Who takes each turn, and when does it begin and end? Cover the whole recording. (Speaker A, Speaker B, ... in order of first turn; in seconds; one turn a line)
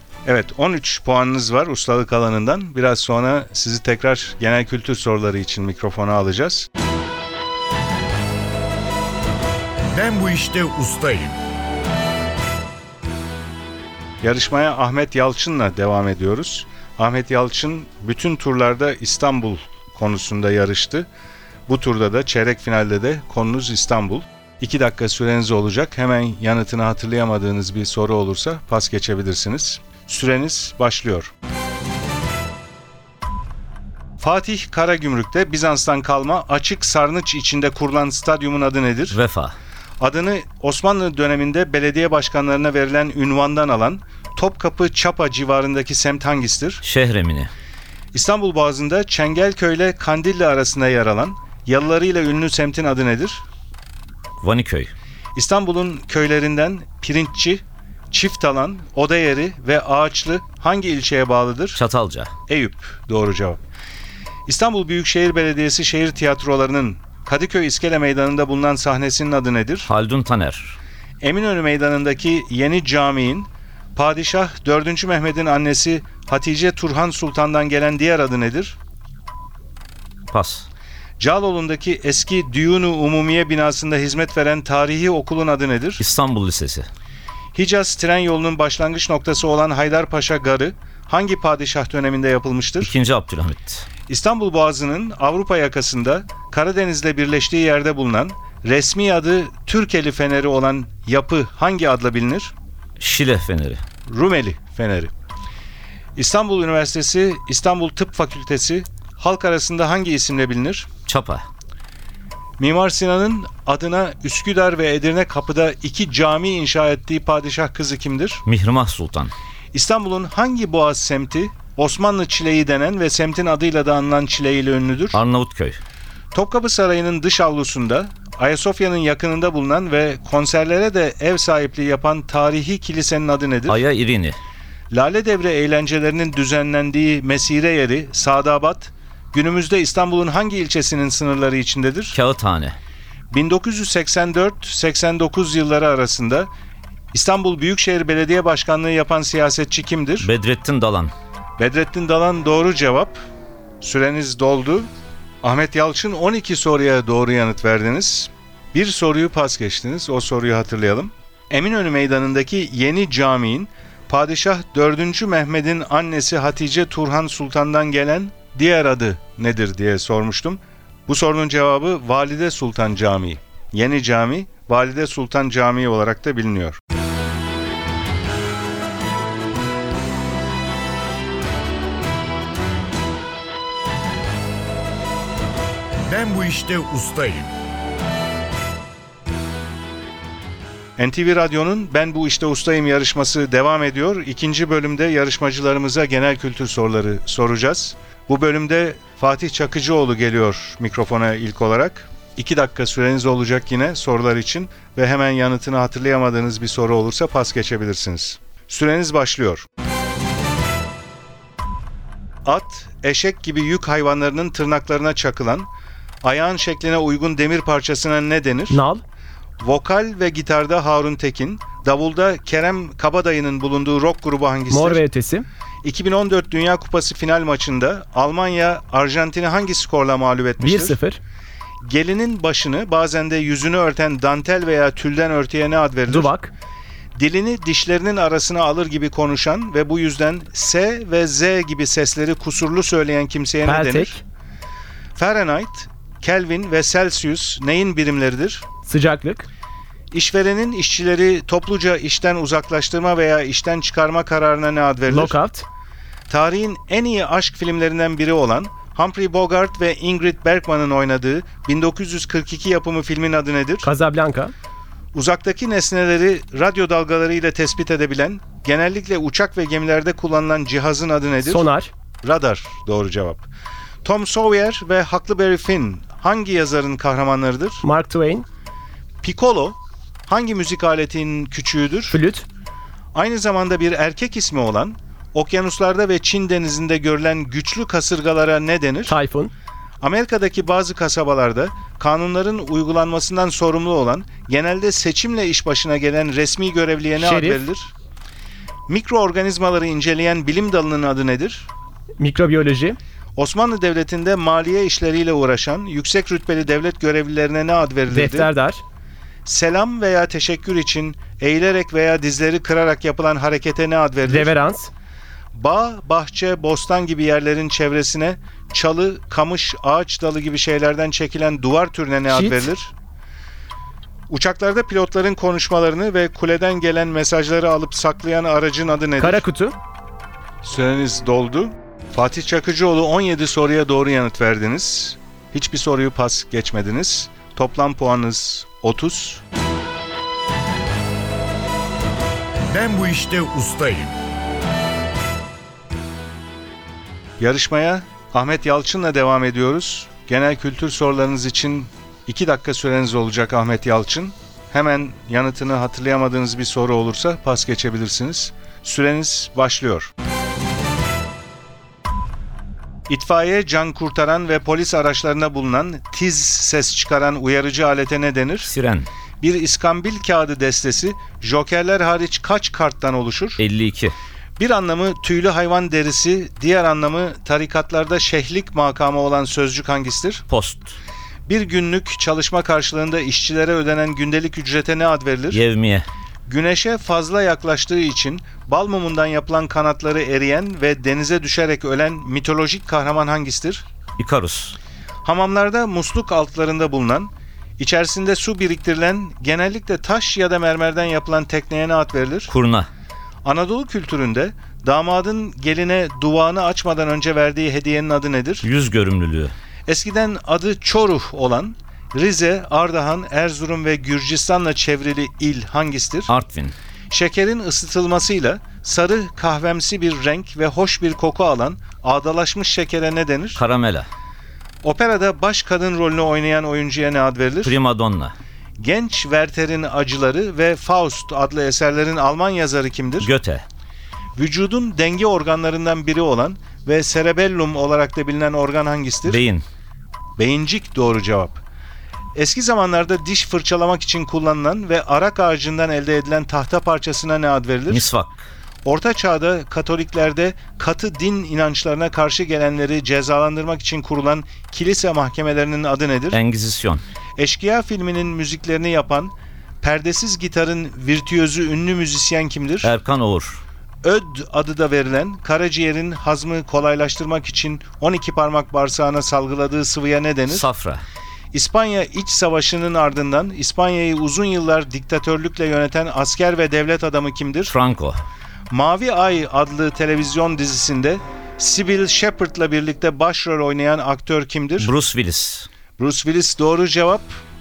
Speaker A: 0.2-6.7
Speaker B: 9.9-11.4
Speaker A: 14.2-21.1
Speaker A: 21.7-31.3
Speaker A: 34.2-39.2
Speaker C: 39.1-39.5
Speaker A: 40.0-46.8
Speaker C: 46.8-47.5
Speaker A: 48.1-53.4
Speaker C: 54.4-54.9
Speaker A: 55.4-61.8
Speaker C: 61.8-62.3
Speaker A: 62.5-63.6
Speaker A: 64.5-69.9
Speaker C: 69.9-70.8
Speaker A: 71.2-78.8
Speaker C: 80.3-80.7
Speaker A: 81.2-86.0
Speaker C: 86.0-86.9
Speaker A: 87.5-92.9
Speaker C: 92.8-93.9
Speaker A: 94.1-102.5
Speaker C: 103.0-103.8
Speaker A: 104.1-105.1
Speaker A: 106.2-110.9
Speaker C: 111.1-111.5
Speaker A: 112.6-118.4
Speaker C: 118.5-119.3
Speaker A: 119.7-125.2
Speaker C: 125.1-125.8
Speaker A: 126.3-133.8
Speaker C: 133.7-134.4
Speaker A: 134.9-142.2
Speaker C: 142.1-142.8
Speaker A: 143.3-146.5
Speaker A: 147.1-150.3
Speaker C: 150.2-151.1
Speaker A: 151.6-153.2
Speaker A: 153.8-154.9
Speaker A: 155.4-176.8
Speaker B: 186.1-187.5
Speaker A: 191.0-209.7
Speaker A: 212.4-215.7
Speaker A: 216.2-218.8
Speaker D: 218.7-219.0
Speaker A: 219.6-225.1
Speaker D: 224.7-225.5
Speaker A: 225.8-231.0
Speaker D: 230.6-231.2
Speaker A: 231.8-236.3
Speaker D: 236.1-236.5
Speaker A: 237.2-244.2
Speaker D: 243.6-244.2
Speaker A: 245.2-248.7
Speaker D: 248.8-249.5
Speaker A: 250.1-255.4
Speaker D: 255.1-255.7
Speaker A: 256.3-263.9
Speaker D: 263.8-264.5
Speaker A: 265.1-271.7
Speaker D: 271.4-271.9
Speaker A: 272.2-273.5
Speaker A: 274.0-277.8
Speaker D: 277.8-278.5
Speaker A: 279.2-282.2
Speaker D: 282.1-282.5
Speaker A: 283.1-289.2
Speaker D: 289.1-289.5
Speaker A: 290.0-297.9
Speaker D: 297.2-297.7
Speaker A: 298.9-301.7
Speaker D: 302.2-303.0
Speaker A: 303.4-308.5
Speaker D: 308.1-308.8
Speaker A: 309.4-314.5
Speaker D: 314.2-314.9
Speaker A: 315.5-322.9
Speaker D: 322.3-322.7
Speaker A: 324.3-329.4
Speaker D: 329.2-329.8
Speaker A: 330.6-339.4
Speaker B: 342.7-344.2
Speaker A: 347.4-360.1
Speaker A: 363.1-368.7
Speaker C: 368.6-369.1
Speaker A: 369.4-373.6
Speaker C: 373.6-374.1
Speaker A: 374.6-380.4
Speaker C: 380.5-381.0
Speaker A: 381.5-385.6
Speaker C: 385.5-386.1
Speaker A: 386.5-393.9
Speaker C: 394.2-394.8
Speaker A: 395.2-402.5
Speaker C: 402.5-402.9
Speaker A: 403.4-408.7
Speaker C: 408.6-409.5
Speaker A: 409.9-416.3
Speaker C: 416.3-416.8
Speaker A: 417.1-423.6
Speaker C: 423.6-424.1
Speaker A: 424.8-427.8
Speaker C: 427.6-428.3
Speaker A: 428.8-433.3
Speaker C: 433.2-433.6
Speaker A: 434.4-439.4
Speaker C: 439.2-439.6
Speaker A: 440.4-441.6
Speaker A: 442.4-448.1
Speaker C: 447.9-448.4
Speaker A: 448.9-456.4
Speaker C: 456.3-457.0
Speaker A: 457.4-462.9
Speaker C: 462.8-463.6
Speaker A: 464.0-470.7
Speaker C: 470.5-471.0
Speaker A: 471.5-477.8
Speaker C: 477.7-478.2
Speaker A: 478.7-484.9
Speaker C: 484.8-485.7
Speaker A: 486.0-487.4